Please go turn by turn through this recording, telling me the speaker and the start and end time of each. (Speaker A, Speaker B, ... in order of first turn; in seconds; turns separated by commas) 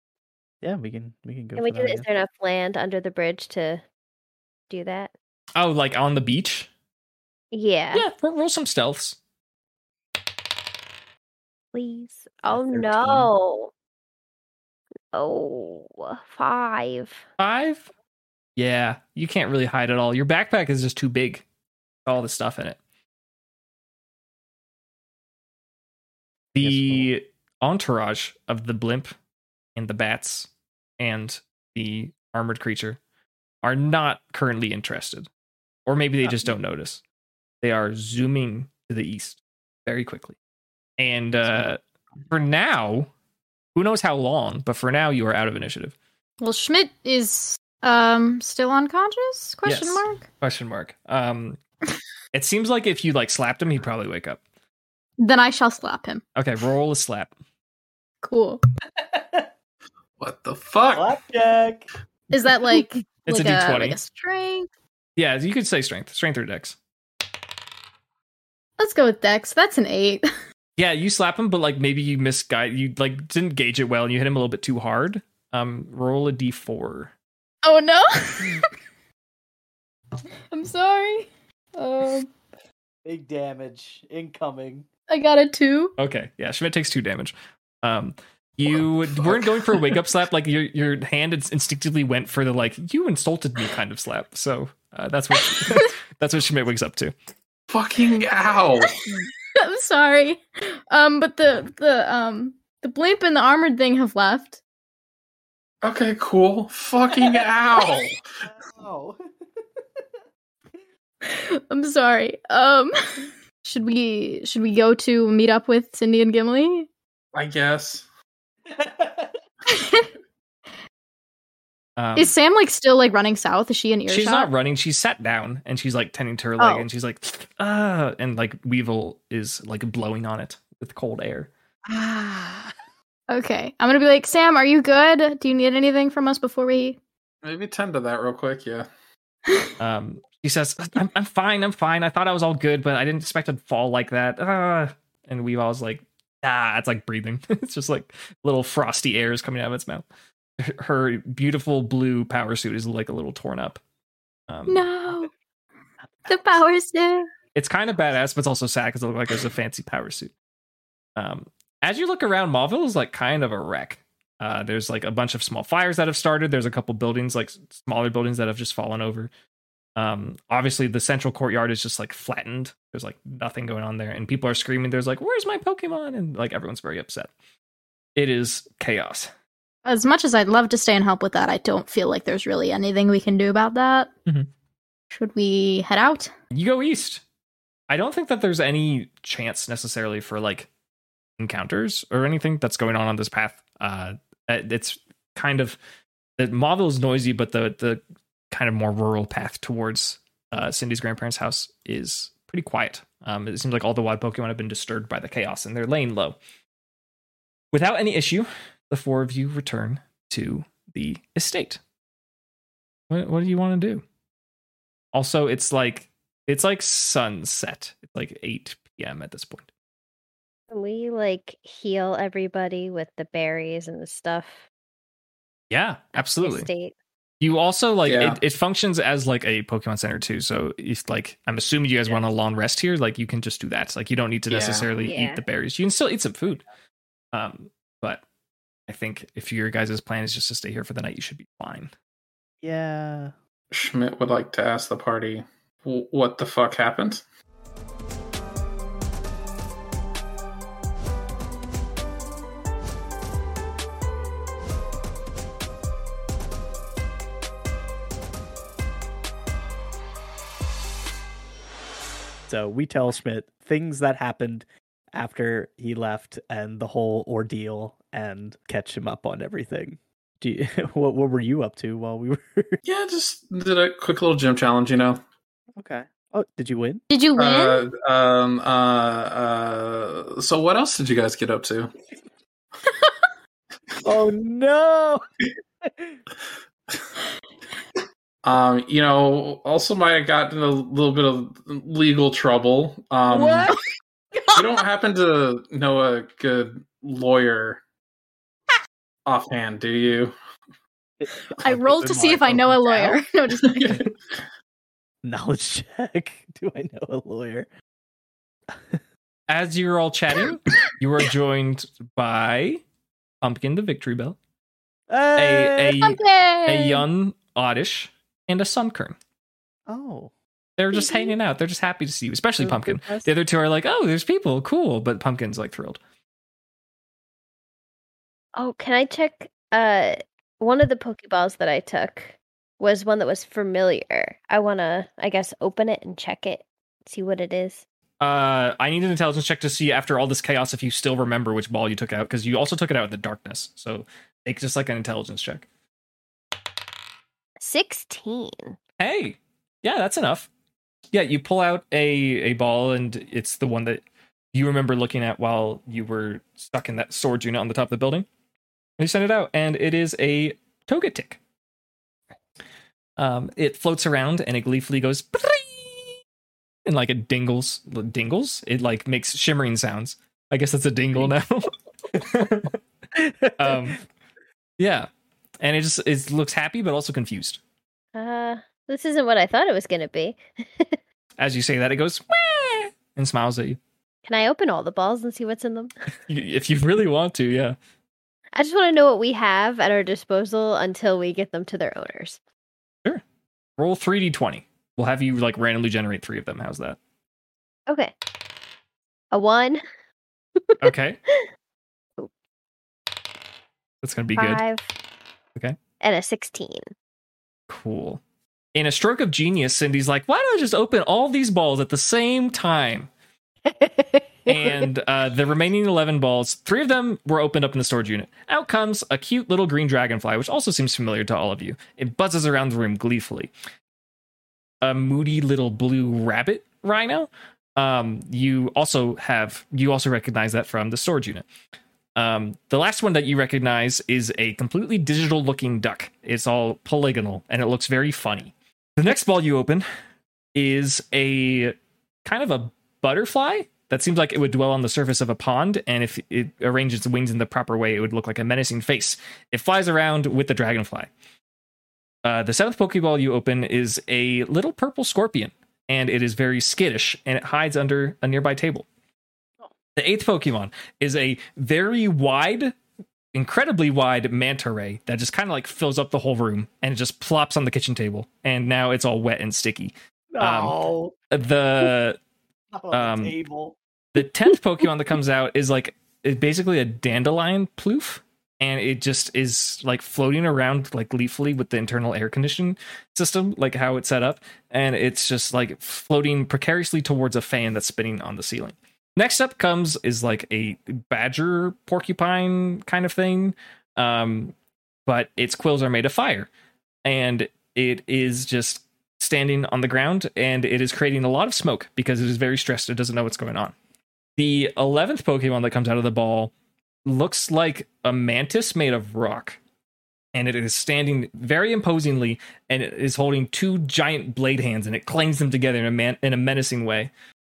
Speaker A: 0.6-2.1, Speaker B: 1.6-3.8, Speaker B: 4.7-5.1, Speaker C: 5.6-6.7, Speaker B: 7.5-8.1, Speaker C: 7.9-9.2, Speaker B: 11.7-13.7, Speaker A: 12.5-13.3, Speaker B: 15.1-17.3, Speaker C: 17.4-17.9, Speaker C: 18.6-21.4, Speaker C: 22.1-22.8, Speaker C: 26.5-29.1, Speaker A: 26.6-27.1, Speaker C: 29.8-33.0, Speaker C: 33.6-35.3, Speaker C: 35.9-37.0, Speaker A: 36.2-36.5, Speaker C: 37.6-40.4, Speaker C: 41.0-43.1, Speaker A: 41.5-41.8, Speaker C: 43.8-46.0, Speaker D: 46.4-50.2, Speaker C: 49.6-51.6, Speaker C: 52.3-54.4, Speaker D: 55.2-56.2, Speaker C: 56.4-57.3, Speaker D: 58.2-58.6, Speaker A: 59.0-59.5, Speaker E: 60.2-61.1, Speaker A: 60.9-61.9, Speaker D: 62.3-64.7, Speaker C: 63.3-64.0, Speaker C: 65.2-66.8, Speaker D: 68.8-70.2, Speaker C: 70.8-77.1, Speaker D: 77.6-78.7, Speaker D: 80.5-82.3, Speaker A: 83.0-84.9, Speaker D: 85.1-85.9, Speaker C: 86.0-97.1, Speaker D: 95.4-95.9, Speaker E: 97.7-99.0, Speaker D: 99.1-104.6, Speaker E: 105.8-108.2, Speaker A: 108.4-109.2, Speaker D: 111.2-112.9, Speaker D: 113.6-116.9, Speaker E: 117.3-118.0, Speaker A: 118.7-119.4, Speaker D: 119.7-120.1, Speaker C: 122.0-122.3, Speaker D: 122.2-124.5, Speaker C: 124.1-131.5, Speaker D: 126.6-126.8, Speaker A: 131.9-132.7, Speaker D: 133.3-137.0, Speaker E: 137.4-138.9, Speaker C: 139.8-150.1, Speaker C: 150.6-153.8, Speaker C: 154.5-154.9, Speaker D: 154.7-155.3, Speaker A: 156.0-156.6, Speaker D: 156.3-157.3, Speaker C: 157.5-160.3, Speaker C: 161.2-169.3, Speaker C: 170.0-177.3, Speaker C: 178.2-179.3, Speaker D: 179.8-184.1, Speaker D: 185.1-186.3, Speaker C: 186.5-187.2, Speaker C: 187.9-190.7, Speaker C: 191.4-195.8, Speaker C: 196.4-206.4, Speaker C: 207.7-211.8, Speaker C: 213.1-214.0, Speaker C: 215.1-219.7, Speaker B: 220.7-224.6, Speaker C: 225.7-226.7, Speaker B: 226.2-226.9, Speaker C: 227.4-236.7, Speaker E: 228.0-228.4, Speaker E: 234.5-234.9, Speaker B: 235.0-235.4, Speaker C: 237.3-238.2, Speaker C: 238.9-241.9, Speaker A: 242.6-243.3, Speaker E: 243.7-247.2, Speaker A: 262.5-272.8, Speaker E: 272.9-275.2, Speaker A: 275.8-277.0, Speaker D: 277.1-277.9, Speaker E: 277.4-281.9, Speaker D: 282.9-283.1, Speaker A: 284.0-285.2, Speaker A: 285.8-286.2, Speaker E: 288.4-293.7, Speaker A: 293.3-293.8, Speaker E: 294.5-297.8, Speaker E: 299.2-300.3, Speaker A: 301.2-303.2, Speaker D: 301.6-304.1, Speaker E: 303.6-304.1, Speaker A: 305.2-307.7, Speaker A: 308.7-309.0, Speaker C: 309.5-312.8, Speaker C: 313.4-314.4, Speaker A: 315.1-316.0, Speaker C: 315.4-319.2, Speaker D: 316.0-317.0, Speaker A: 319.9-320.3, Speaker C: 320.8-326.0, Speaker A: 322.6-323.3, Speaker B: 328.6-337.8, Speaker C: 338.2-345.7, Speaker B: 347.6-348.8, Speaker C: 349.0-350.5, Speaker C: 351.1-354.0, Speaker C: 354.5-358.3, Speaker C: 359.0-361.4, Speaker C: 363.2-366.1, Speaker C: 366.9-372.8, Speaker A: 373.1-374.0, Speaker C: 373.6-374.0, Speaker C: 374.8-375.1, Speaker C: 375.6-377.6, Speaker B: 378.1-381.0, Speaker C: 381.4-383.8, Speaker B: 384.2-385.9, Speaker C: 386.3-387.8, Speaker B: 388.5-392.4, Speaker C: 393.8-397.0, Speaker B: 397.9-398.1, Speaker B: 399.3-399.8, Speaker C: 400.8-401.2, Speaker C: 404.0-404.6, Speaker B: 404.4-404.9, Speaker B: 406.0-406.8, Speaker C: 407.7-408.2, Speaker C: 408.7-413.1, Speaker B: 413.7-414.8, Speaker C: 414.5-423.5, Speaker C: 424.8-431.5, Speaker C: 432.1-439.9, Speaker C: 440.5-451.1, Speaker C: 452.2-458.9, Speaker C: 460.0-462.8, Speaker C: 463.3-472.2, Speaker A: 470.3-471.1, Speaker A: 472.7-473.8, Speaker C: 472.9-473.4, Speaker C: 474.1-494.5, Speaker C: 495.1-496.5, Speaker C: 497.0-503.8, Speaker C: 504.4-506.5, Speaker C: 507.0-509.6, Speaker C: 510.3-517.1